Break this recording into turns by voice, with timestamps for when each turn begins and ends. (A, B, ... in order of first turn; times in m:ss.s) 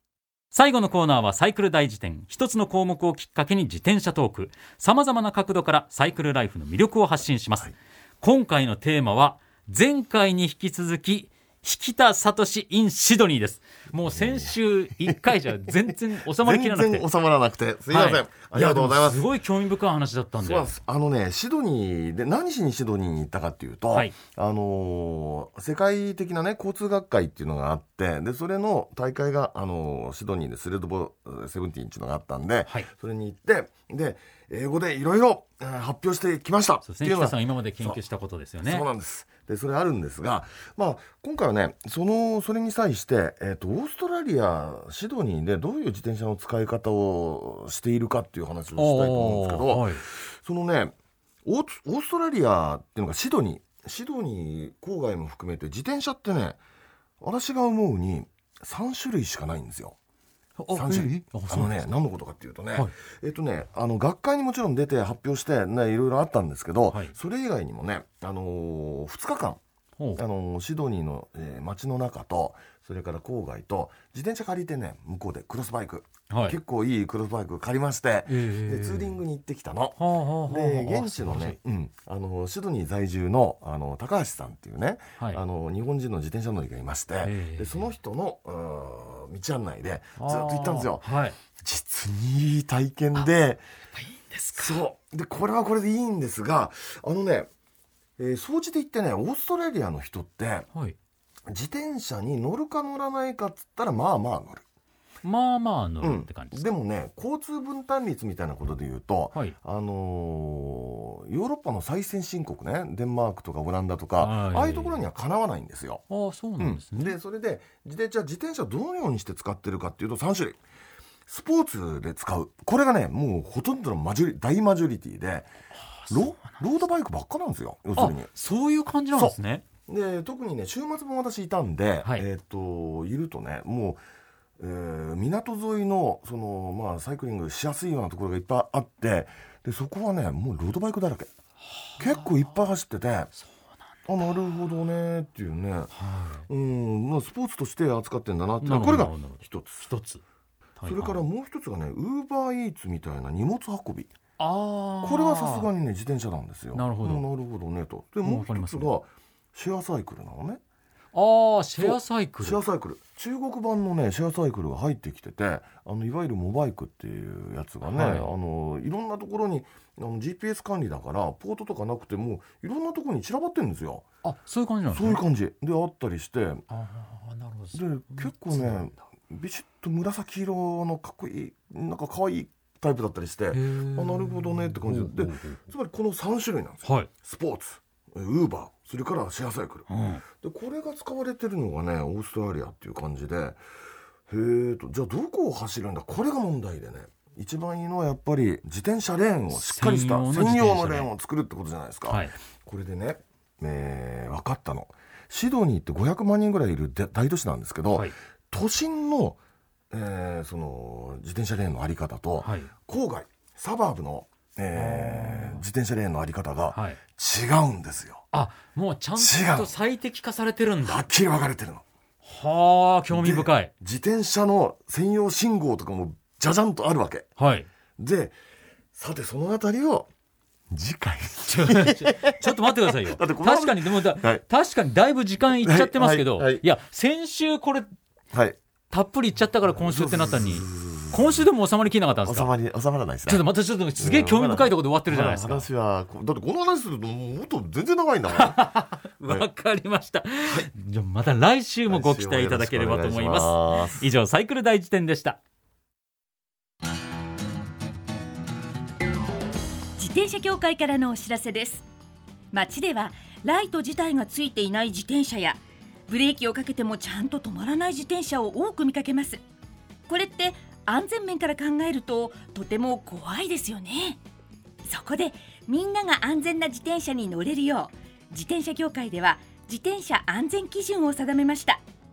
0:00.5-0:17.0 A
0:14.1-0:19.3 B
0:17.9-0:20.7 A
0:20.4-0:38.0 B
0:36.8-0:38.8 A
0:38.6-0:50.9 B
0:48.8-0:50.0 A
0:51.4-0:56.6 B
0:57.2-1:00.0 B
1:00.6-1:01.8 A
1:00.7-1:09.6 B
1:10.2-1:33.6 B
1:16.3-1:16.6 A
1:18.3-1:19.2 A
1:20.0-1:21.6 A
1:27.2-1:27.9 A
1:30.2-1:31.4 A
1:33.9-1:34.8 A
1:34.5-1:37.5 B
1:38.2-1:40.7 B
1:41.5-1:44.6 B
1:45.2-1:46.6 A
1:46.0-1:56.0 B
1:54.2-1:55.0 A
1:56.1-1:57.1 A
1:56.6-2:00.6 B
2:01.3-2:05.5 B
2:06.0-2:06.6 A
2:06.1-2:08.3 B
2:08.0-2:09.6 A
2:09.9-2:14.0 B
2:14.6-2:21.3 B
2:21.7-2:22.4 A
2:22.0-2:23.3 B
2:24.1-2:25.9 B
2:25.9-2:26.4 A
2:26.5-2:29.9 B
2:28.6-2:30.2 A
2:30.8-2:31.2 A
2:30.8-2:34.1 B
2:34.4-2:35.7 A
2:35.0-2:40.6 B
2:36.7-2:37.3 A
2:38.2-2:38.9 A
2:41.1-2:42.6 A
2:41.8-2:54.1 B
2:47.8-2:48.3 A
2:54.2-2:55.2 A
2:54.9-2:56.6 B
2:56.7-2:59.0 A
2:57.7-3:13.6 B
3:03.5-3:05.6 A
3:06.8-3:07.1 A
3:09.9-3:10.2 A
3:14.3-3:29.4 B
3:19.5-3:21.1 A
3:22.1-3:22.3 A
3:29.9-3:38.2 B
3:32.4-3:32.7 A
3:34.7-3:35.6 A
3:36.7-3:37.0 A
3:38.3-3:41.0 A
3:39.2-3:39.7 B
3:40.8-3:41.8 B
3:42.2-3:43.7 A
3:43.1-3:47.3 B
3:47.4-3:47.7 A
3:48.0-3:48.4 B
3:48.9-3:50.1 B
3:50.7-3:54.4 B
3:51.5-3:57.9 A
3:55.6-3:56.6 B
3:58.3-3:58.6 B
3:58.9-4:02.5 A
3:59.7-4:01.4 B
4:02.2-4:09.4 B
4:03.3-4:05.7 A
4:08.3-4:15.4 A
4:11.9-4:14.0 B
4:20.0-4:21.8 C
4:22.5-4:29.4 C
4:30.1-4:34.2 C
4:34.9-4:41.8 C